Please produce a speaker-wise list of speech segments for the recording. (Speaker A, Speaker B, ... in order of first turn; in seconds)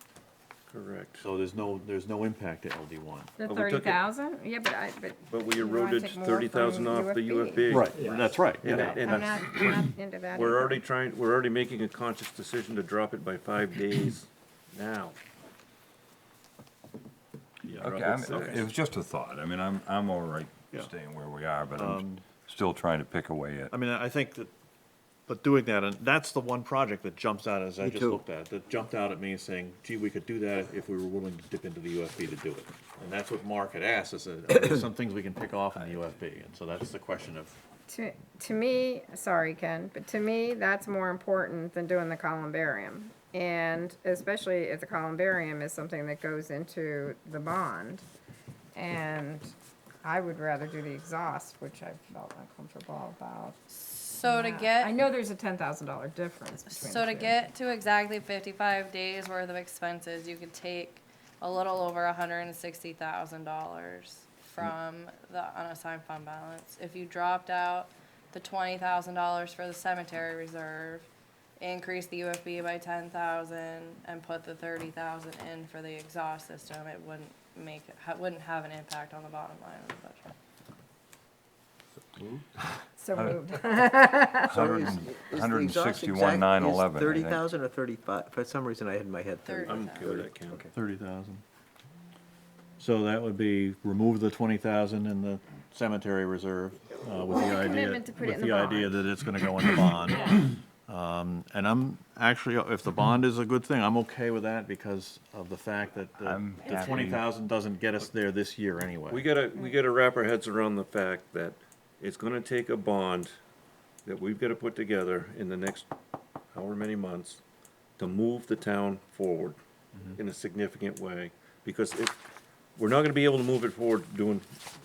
Speaker A: 0.7-1.3, 3.4-4.0, 5.3-15.2, 17.7-18.7, 89.7-90.7, 109.1-113.3, 114.0-115.9, 116.5-117.4, 118.0-119.6, 120.1-122.2, 122.8-124.5
Speaker B: 1.2-3.3, 7.7-9.0, 21.7-22.2, 23.7-24.5, 25.3-37.5, 90.7-91.4, 92.8-109.3
Speaker C: 3.4-7.8, 8.7-10.8, 37.9-48.0, 48.7-53.6, 54.2-57.4, 83.0-84.5, 97.3-99.0
Speaker D: 17.7-23.7, 83.1-83.5, 84.5-87.4, 106.2-107.3
Speaker E: 27.8-28.2, 82.2-82.4, 84.5-90.7
Speaker F: 53.7-55.0, 56.7-71.1, 71.6-80.3, 89.4-90.1